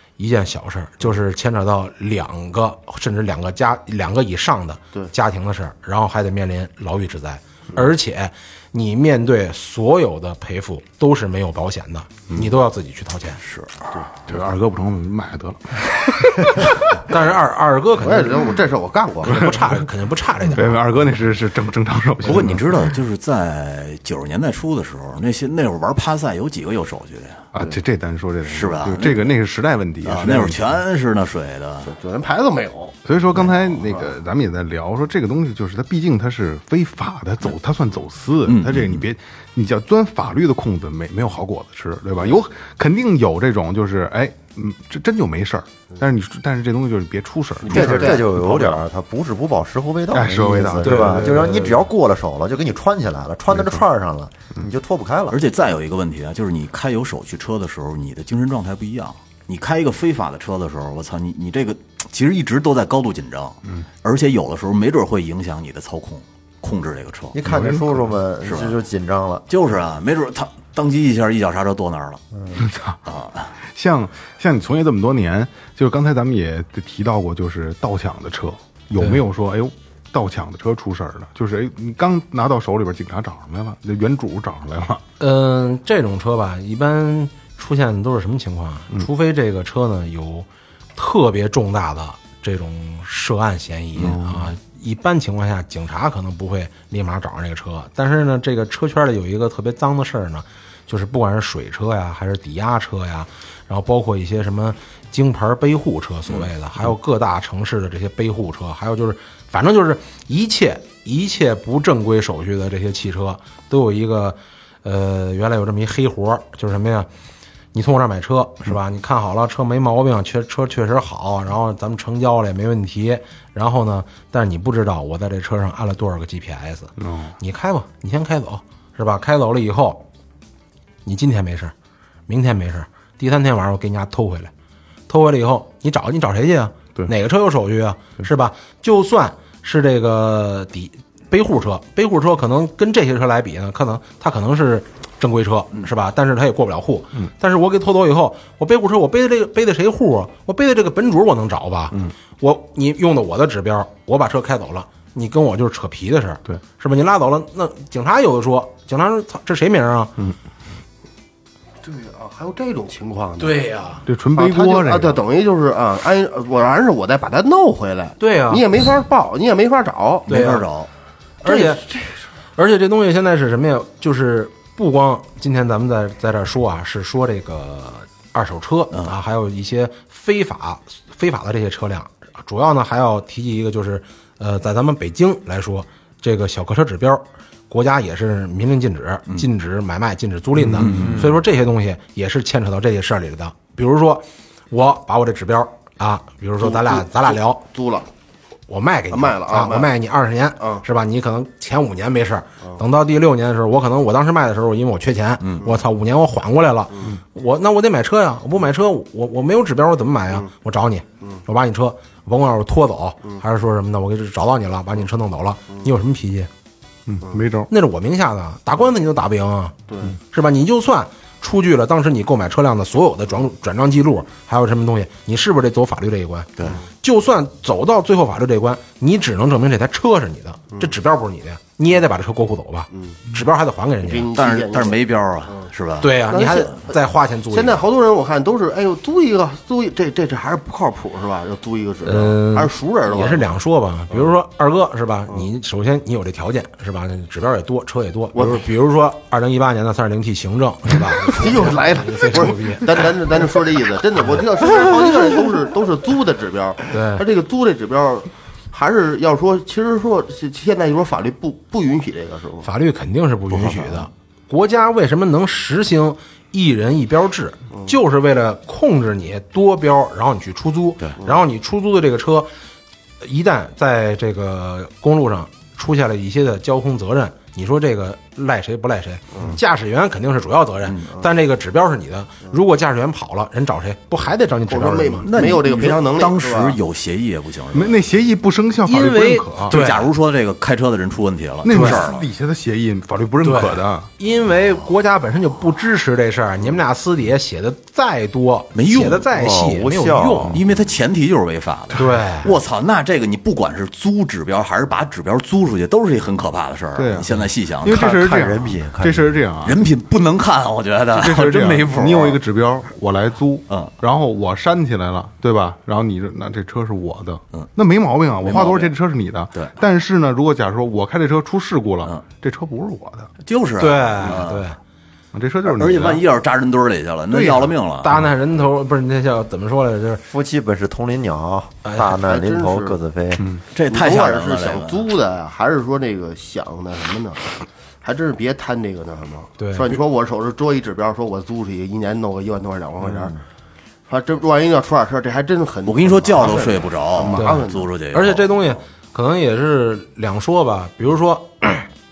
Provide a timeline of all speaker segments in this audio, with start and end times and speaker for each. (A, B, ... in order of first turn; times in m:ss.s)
0:00.2-0:13.4 A
0:13.4-0:13.9 B
0:14.2-0:16.7 C
0:17.0-0:18.4 A
0:18.0-0:19.6 D
0:19.2-0:20.8 A
0:20.4-0:22.9 C
0:22.2-0:27.4 B
0:27.5-0:30.8 C
0:28.4-0:29.2 B
0:30.0-0:31.9 B
0:31.8-0:34.1 D
0:33.0-0:48.2 C
0:38.4-0:39.0 B
0:47.6-0:48.5 D
0:47.7-0:55.4 E
0:47.9-0:48.8 B
0:50.1-0:51.9 C
0:50.8-0:51.6 A
0:53.5-0:53.8 C
0:55.3-1:07.4 B
1:07.3-1:09.4 E
1:07.4-1:08.2 C
1:08.4-1:08.8 B
1:09.5-1:12.2 B
1:12.3-1:12.6 E
1:12.5-1:13.0 C
1:13.0-1:13.5 B
1:13.6-1:25.0 C
1:25.2-1:57.1 A
1:34.0-1:34.5 C
1:57.7-2:10.0 A
2:07.0-2:07.3 C
2:11.0-2:11.7 A
2:12.3-2:14.5 A
2:15.1-2:40.1 A
2:41.8-2:43.6 D
2:43.4-2:44.0 A
2:44.0-2:45.2 C
2:44.3-2:50.3 D
2:48.2-2:48.6 A
2:50.3-2:50.9 B
2:50.3-2:50.7 A
2:51.4-2:51.8 A
2:51.4-2:52.1 D
2:52.6-3:17.6 A
3:10.6-3:11.2 C
3:10.8-3:11.3 B
3:16.6-3:18.1 D
3:18.7-3:36.5 A
3:19.1-3:19.9 D
3:20.6-3:20.8 D
3:25.4-3:25.6 B
3:37.1-3:37.7 C
3:37.7-3:39.8 A
3:39.9-3:40.1 D
3:40.3-3:54.3 A
3:54.0-3:55.7 D
3:54.3-3:56.2 B
3:56.0-3:57.8 A
3:56.3-3:57.0 D
3:57.5-4:03.5 D
4:02.0-4:13.1 A
4:08.3-4:08.6 D
4:11.3-4:22.7 D
4:16.9-4:17.2 A
4:22.6-4:32.5 A
4:23.5-4:24.0 B
4:33.2-4:45.3 A
4:44.7-4:46.8 D
4:45.2-4:48.0 B
4:47.7-4:49.8 C
4:48.8-4:50.1 A
4:49.7-4:52.3 B
4:51.6-4:54.1 C
4:51.7-4:52.0 A
4:53.4-5:00.6 A
4:58.7-4:59.3 B
4:59.3-5:00.6 E
5:00.5-5:08.1 B
5:01.9-5:02.5 A
5:07.0-5:09.8 C
5:07.8-5:09.3 E
5:09.6-5:12.4 B
5:11.1-5:23.3 C
5:18.4-5:18.9 B
5:23.4-5:24.6 B
5:23.8-5:24.8 A
5:25.3-5:26.2 C
5:25.6-5:28.1 B
5:27.3-5:30.2 A
5:30.3-5:33.4 E
5:31.8-5:32.2 A
5:32.2-5:33.0 D
5:33.7-5:35.1 B
5:33.9-5:43.3 D
5:39.6-5:40.0 A
5:44.1-5:47.9 D
5:45.8-5:48.5 B
5:47.3-5:51.9 A